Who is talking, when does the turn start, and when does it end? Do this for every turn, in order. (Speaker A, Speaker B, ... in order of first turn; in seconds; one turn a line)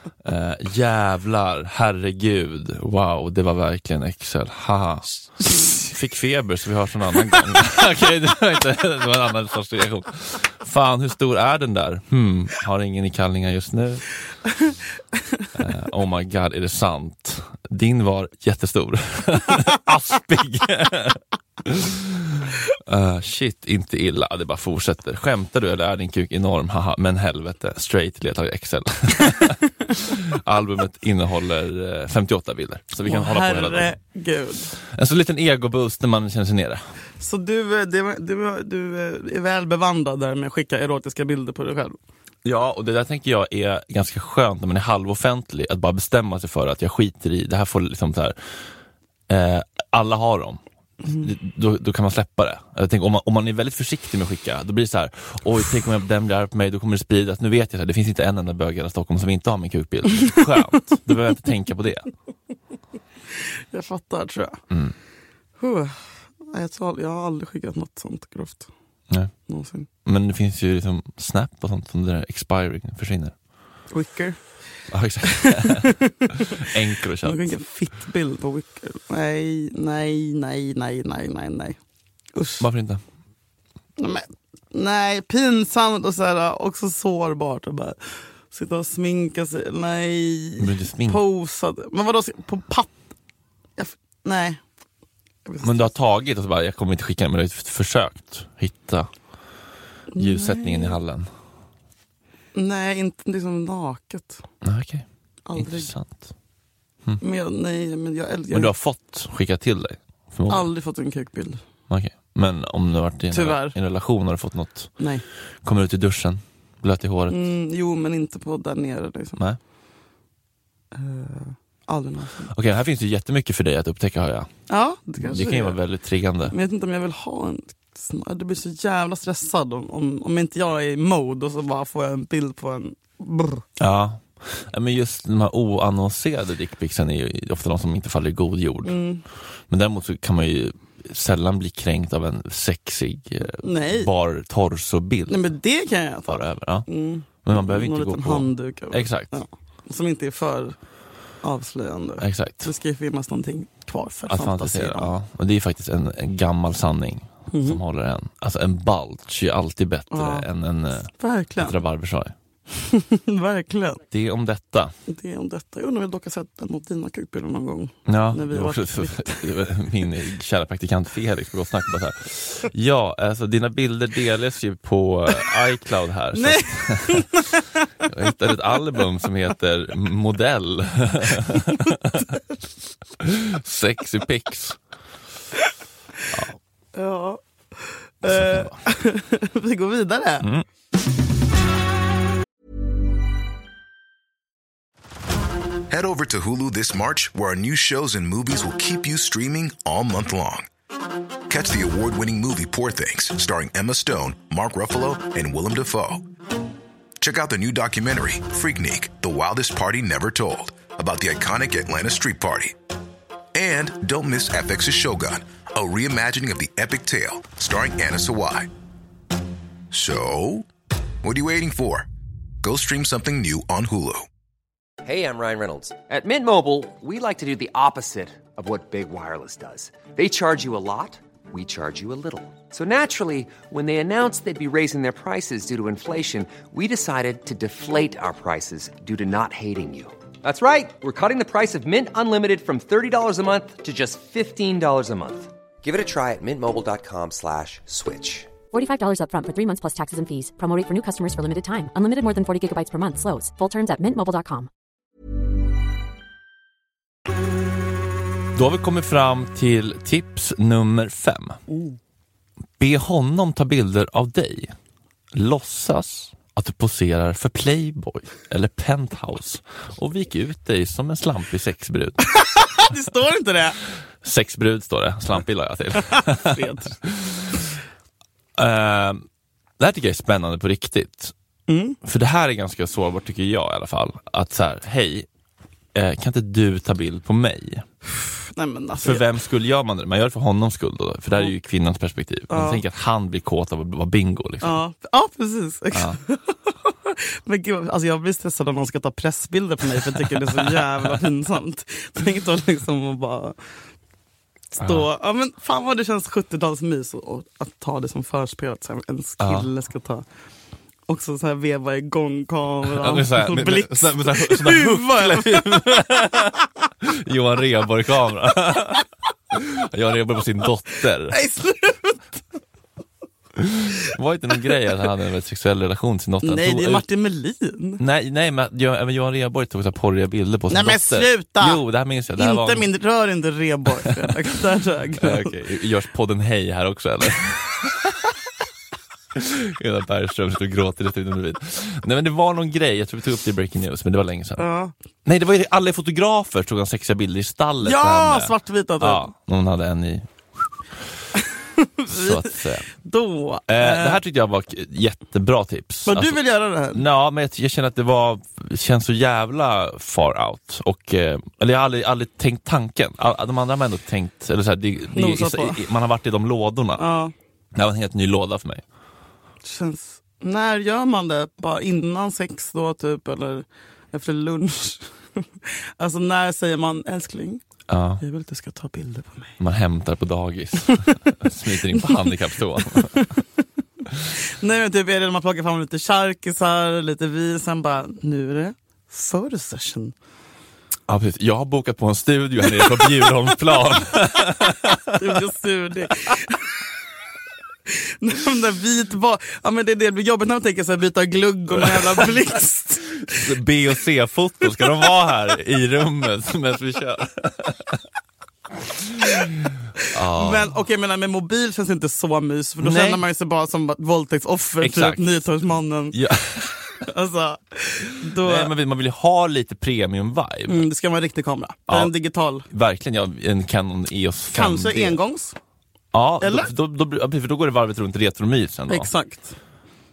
Speaker A: 0.2-14.1
Speaker A: 15.6-33.9
Speaker B: 33.0-34.8
Speaker A: 34.8-36.8
Speaker B: 37.2-42.0
Speaker A: 42.5-48.4
Speaker A: 49.3-62.1
Speaker B: 51.0-51.3
Speaker B: 63.7-64.6
Speaker A: 64.7-65.0
Speaker B: 65.6-68.7
Speaker B: 69.5-69.9
Speaker A: 70.0-73.3
Speaker B: 73.9-74.4
Speaker A: 74.9-77.5
Speaker B: 75.4-76.6
Speaker B: 77.2-81.8
Speaker B: 82.3-82.7
Speaker A: 82.6-83.0
Speaker B: 84.0-92.9
Speaker A: 90.6-91.2
Speaker B: 93.8-94.6
Speaker B: 95.5-95.9
Speaker A: 95.6-99.1
Speaker B: 100.1-101.0
Speaker A: 100.2-101.3
Speaker B: 102.5-104.4
Speaker A: 104.6-106.3
Speaker B: 105.5-105.9
Speaker B: 107.2-108.7
Speaker A: 108.5-110.7
Speaker B: 110.5-111.6
Speaker A: 111.9-114.9
Speaker B: 113.3-113.8
Speaker B: 115.0-115.2
Speaker A: 115.6-117.4
Speaker B: 117.3-119.4
Speaker B: 120.9-122.5
Speaker A: 122.5-124.5
Speaker B: 124.7-125.8
Speaker A: 125.2-126.5
Speaker B: 126.5-133.6
Speaker A: 133.8-139.0
Speaker B: 138.8-139.2
Speaker A: 139.7-145.5
Speaker B: 143.6-144.1
Speaker B: 145.3-150.8
Speaker A: 146.3-146.9
Speaker A: 147.4-149.3
Speaker B: 151.4-155.1
Speaker A: 152.2-152.7
Speaker A: 154.3-162.3
Speaker B: 157.5-157.8
Speaker B: 160.1-160.5
Speaker B: 161.1-161.8
Speaker B: 162.7-164.0
Speaker A: 164.1-164.9
Speaker B: 165.1-169.6
Speaker A: 168.1-177.5
Speaker B: 176.3-177.7
Speaker A: 178.0-182.4
Speaker A: 183.2-184.8
Speaker B: 186.9-190.5
Speaker A: 188.2-188.8
Speaker C: 195.9-200.7
Speaker C: 201.5-206.2
Speaker C: 207.2-212.8
Speaker C: 213.5-218.7
Speaker C: 219.9-220.7
Speaker C: 221.2-222.1
Speaker C: 222.6-224.3
Speaker D: 225.0-248.5
Speaker E: 248.7-254.7
Speaker A: 258.6-261.6
Speaker B: 261.7-262.0
Speaker A: 262.8-264.8
Speaker A: 265.3-272.2
Speaker B: 272.4-273.8
Speaker A: 274.2-277.6
Speaker B: 275.9-277.0
Speaker A: 278.6-279.2
Speaker A: 279.8-281.3
Speaker B: 281.7-282.0
Speaker A: 282.0-285.3
Speaker A: 285.9-287.9
Speaker B: 288.5-289.2
Speaker A: 289.0-294.8
Speaker B: 292.5-292.8
Speaker B: 294.6-303.6
Speaker A: 295.9-296.2
Speaker A: 300.0-301.3
Speaker B: 304.7-310.2
Speaker A: 304.8-305.1
Speaker A: 309.4-309.7
Speaker B: 311.1-316.0
Speaker A: 312.9-321.4
Speaker B: 321.3-322.2
Speaker A: 323.6-327.1
Speaker B: 326.4-328.0
Speaker A: 328.0-332.9
Speaker B: 330.7-331.8
Speaker B: 332.4-335.6
Speaker A: 335.2-338.2
Speaker A: 339.3-344.6
Speaker B: 344.6-344.9
Speaker A: 345.2-350.3
Speaker B: 347.8-349.3
Speaker B: 351.4-354.2
Speaker A: 352.1-352.9
Speaker A: 353.7-356.4
Speaker B: 356.1-357.0
Speaker A: 356.9-367.0
Speaker B: 365.1-365.8
Speaker B: 367.0-367.3
Speaker A: 367.7-368.8
Speaker B: 369.6-377.6
Speaker A: 377.9-378.2
Speaker B: 378.2-379.6
Speaker A: 379.6-383.2
Speaker B: 383.0-383.4
Speaker B: 384.6-390.1
Speaker A: 391.1-395.3
Speaker B: 392.8-393.1
Speaker B: 395.1-396.7
Speaker B: 398.0-403.4
Speaker A: 401.8-402.2
Speaker A: 403.3-408.0
Speaker A: 409.0-410.7
Speaker B: 410.3-416.2
Speaker A: 412.8-413.2
Speaker A: 414.8-415.3
Speaker A: 416.1-416.8
Speaker B: 417.0-418.7
Speaker A: 418.3-420.9
Speaker B: 420.7-422.7
Speaker A: 421.9-422.1
Speaker A: 422.7-425.2
Speaker B: 424.5-425.6
Speaker A: 426.1-429.1
Speaker B: 426.4-426.7
Speaker B: 428.9-429.6